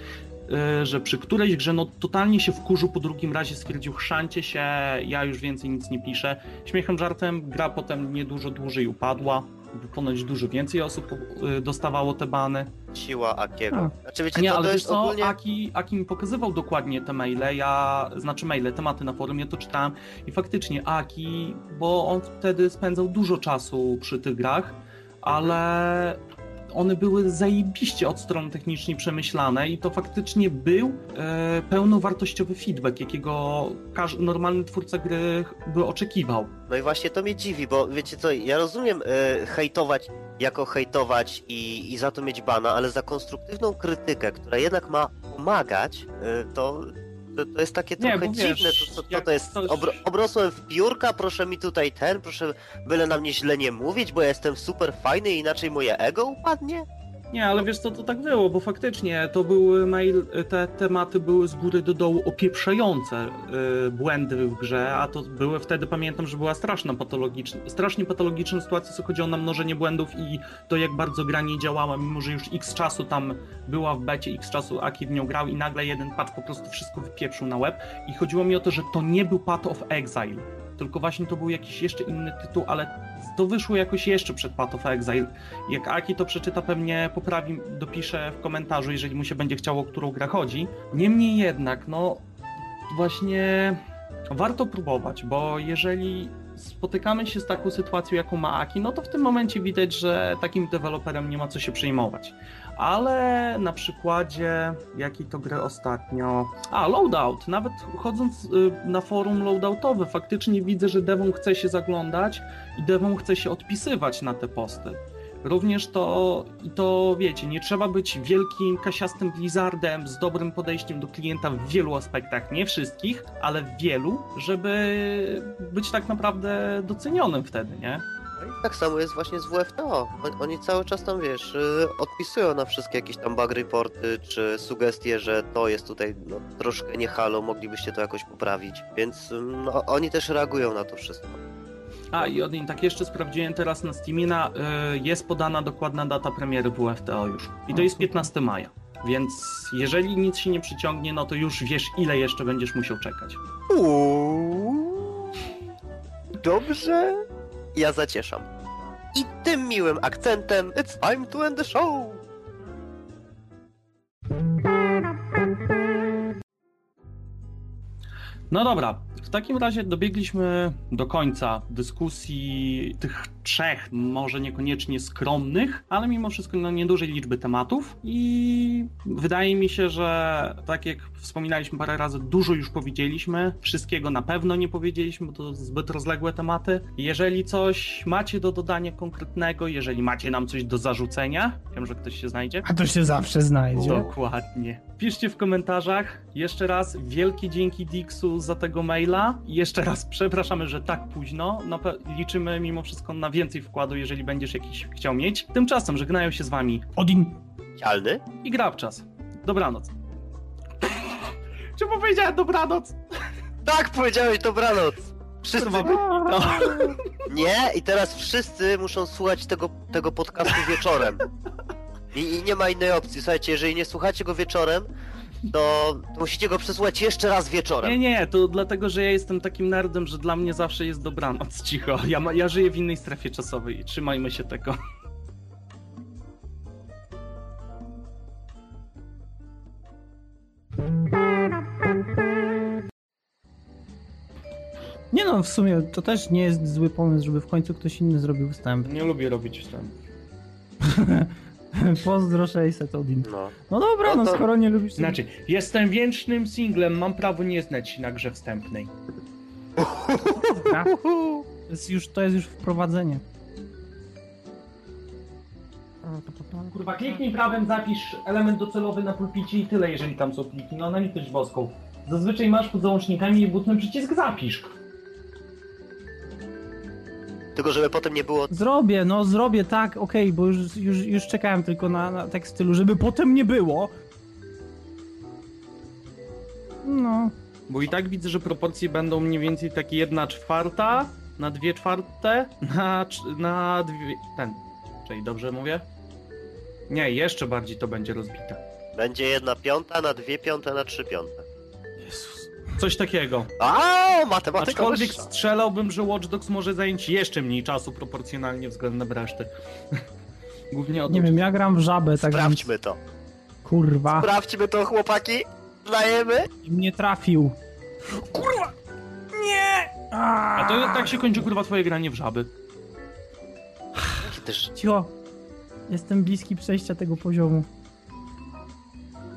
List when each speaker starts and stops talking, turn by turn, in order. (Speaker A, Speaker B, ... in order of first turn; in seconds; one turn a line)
Speaker A: 0.5-12.7
Speaker B: 12.9-15.3
Speaker A: 14.3-26.2
Speaker B: 25.3-25.6
Speaker A: 26.7-36.5
Speaker B: 36.7-56.9
Speaker A: 48.0-50.0
Speaker A: 57.3-92.2
Speaker A: 92.9-128.0
Speaker B: 128.4-141.4
Speaker A: 142.1-153.4
Speaker C: 147.7-148.3
Speaker B: 153.7-155.3
Speaker B: 156.4-158.5
Speaker B: 159.1-162.2
Speaker A: 168.5-192.7
Speaker C: 192.6-194.1
Speaker A: 193.8-206.9
Speaker C: 206.9-207.4
Speaker B: 207.8-208.2
Speaker A: 208.4-209.9
Speaker A: 210.8-213.0
Speaker B: 213.6-216.2
Speaker A: 215.5-217.1
Speaker C: 215.8-217.0
Speaker B: 217.2-221.2
Speaker B: 222.1-224.9
Speaker B: 225.5-228.0
Speaker A: 227.8-234.8
Speaker C: 245.1-248.9
Speaker A: 248.8-250.0
Speaker C: 250.8-255.2
Speaker B: 253.2-253.5
Speaker B: 254.0-254.4
Speaker A: 255.0-258.9
Speaker B: 259.8-261.4
Speaker C: 260.4-260.9
Speaker C: 261.7-263.2
Speaker C: 266.0-266.7
Speaker A: 266.7-274.7
Speaker B: 277.6-278.5
Speaker C: 278.5-283.9
Speaker C: 286.8-287.3
Speaker A: 287.7-295.9
Speaker A: 296.9-298.6
Speaker B: 298.9-301.4
Speaker A: 302.8-303.5
Speaker B: 303.6-305.3
Speaker A: 304.6-310.0
Speaker A: 310.7-311.4
Speaker C: 311.1-312.7
Speaker B: 312.2-313.0
Speaker C: 313.6-314.3
Speaker B: 314.1-316.5
Speaker C: 316.6-317.6
Speaker C: 318.1-318.7
Speaker C: 319.3-321.4
Speaker A: 320.6-322.5
Speaker B: 324.2-324.7
Speaker C: 324.8-325.1
Speaker C: 325.9-327.7